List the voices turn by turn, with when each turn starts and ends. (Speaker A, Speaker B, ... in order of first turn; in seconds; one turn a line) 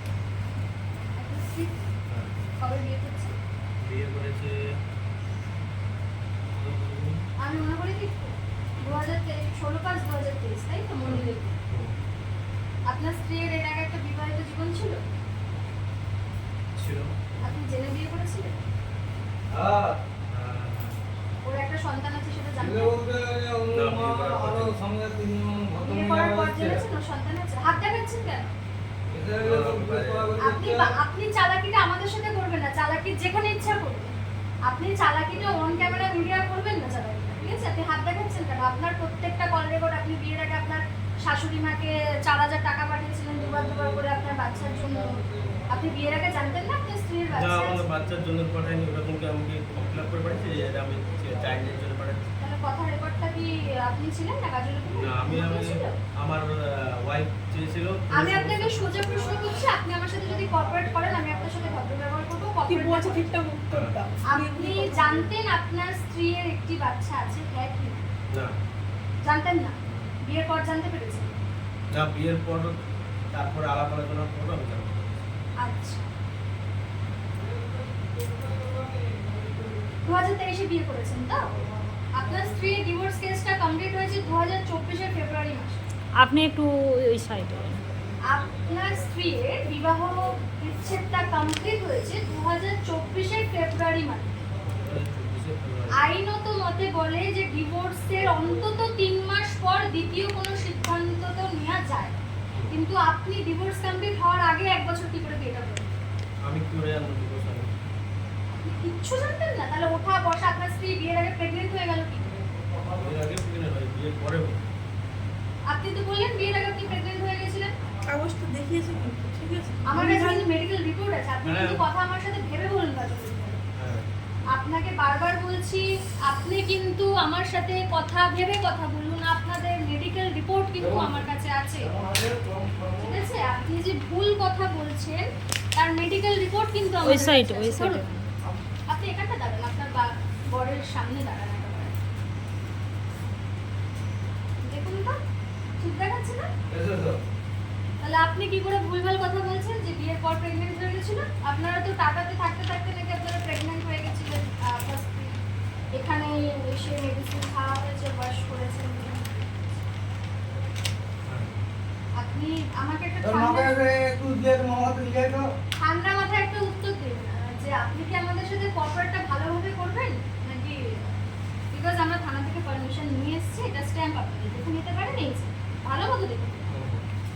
Speaker A: 1.1-1.9
Speaker B: 2.1-2.4
Speaker A: 2.6-3.4
Speaker B: 3.8-4.6
Speaker B: 6.5-7.2
Speaker A: 7.4-11.5
Speaker B: 11.0-11.9
Speaker A: 12.9-15.1
Speaker B: 16.8-17.1
Speaker A: 17.4-18.6
Speaker C: 19.5-20.0
Speaker B: 20.3-20.9
Speaker A: 21.4-22.9
Speaker C: 22.6-26.8
Speaker B: 23.7-24.7
Speaker A: 25.8-28.5
Speaker C: 29.1-30.9
Speaker B: 29.4-30.3
Speaker A: 30.4-47.8
Speaker B: 47.3-52.2
Speaker A: 52.4-56.0
Speaker B: 54.9-59.2
Speaker A: 58.1-63.3
Speaker D: 62.6-65.3
Speaker B: 63.7-64.0
Speaker A: 64.3-68.0
Speaker A: 69.2-71.4
Speaker B: 71.9-72.8
Speaker B: 73.3-75.1
Speaker A: 75.6-76.1
Speaker A: 80.0-81.6
Speaker A: 82.1-85.8
Speaker E: 86.2-87.8
Speaker A: 88.2-94.4
Speaker B: 94.7-96.0
Speaker A: 95.9-102.1
Speaker A: 102.7-106.0
Speaker B: 106.4-107.7
Speaker A: 108.6-112.3
Speaker B: 113.0-114.6
Speaker A: 115.7-117.7
Speaker D: 118.1-120.5
Speaker A: 119.9-123.6
Speaker B: 121.4-121.8
Speaker B: 123.8-124.0
Speaker A: 124.5-131.9
Speaker C: 130.8-131.3
Speaker C: 131.8-133.2
Speaker A: 133.0-138.1
Speaker E: 137.0-138.3
Speaker A: 138.9-141.9
Speaker A: 144.6-145.2
Speaker A: 145.8-146.5
Speaker C: 146.7-147.2
Speaker A: 148.0-155.4
Speaker A: 155.9-159.3
Speaker B: 161.3-161.5
Speaker A: 162.2-163.7
Speaker C: 163.2-165.5
Speaker A: 165.8-171.2
Speaker A: 171.7-176.7
Speaker B: 176.7-177.0